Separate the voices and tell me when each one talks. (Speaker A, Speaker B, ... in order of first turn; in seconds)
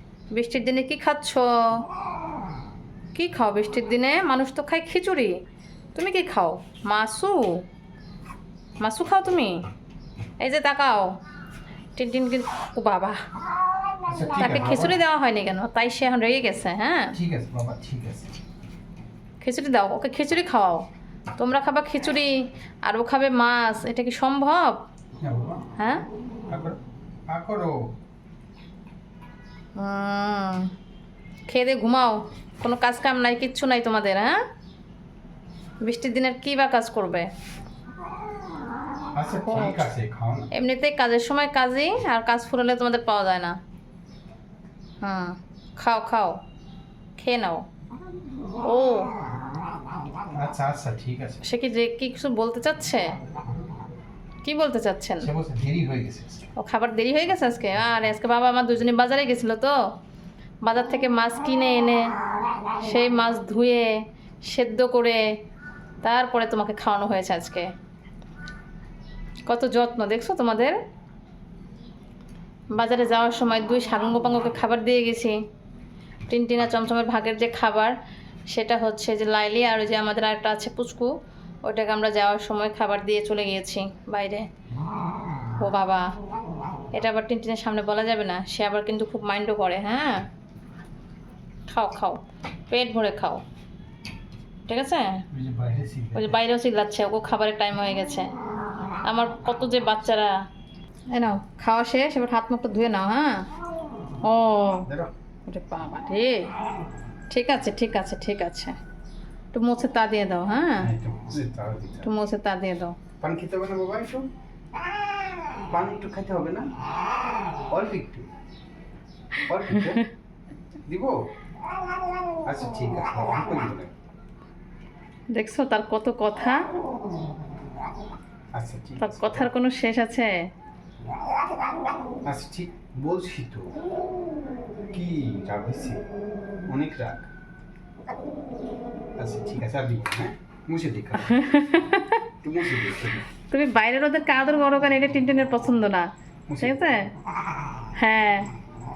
Speaker A: 0.3-1.9, 3.1-5.3, 6.0-7.6, 8.8-9.6, 10.4-11.1, 12.0-13.2, 14.3-17.2, 19.4-20.9, 21.4-24.8, 25.8-26.1, 29.8-30.7, 31.5-34.4, 35.8-37.3, 39.5-39.9, 40.5-43.6, 45.0-46.4, 47.2-47.7, 48.6-49.1, 51.4-53.1, 54.4-55.3, 56.6-59.8, 60.6-62.1, 62.7-65.3, 66.0-67.7, 69.5-70.8, 72.7-75.4, 76.3-78.0, 78.5-81.1, 81.6-84.5, 85.6-86.1, 86.9-90.3, 91.7-93.4, 94.7-95.2, 96.2-98.3, 99.0-100.4, 101.1-103.5, 104.2-104.9, 105.5-106.5, 107.3-108.8, 109.5-110.9, 112.0-113.0, 119.7-120.1, 125.3-126.7, 129.0-130.4, 141.2-142.3, 143.5-146.1, 146.6-147.1, 147.9-148.5
Speaker B: 14.1-15.0, 17.1-18.3, 25.2-25.7, 26.5-26.8, 27.3-27.9, 39.1-40.5, 50.3-51.4, 55.2-56.5, 95.3-96.4, 104.9-105.1, 110.8-112.1, 113.2-114.3, 115.7-116.7, 117.7-118.3, 119.5-120.0, 120.9-121.2, 122.5-123.9, 128.5-129.5, 132.3-133.7, 134.9-136.1, 136.7-137.3, 139.2-141.4, 142.4-143.3, 146.5-147.0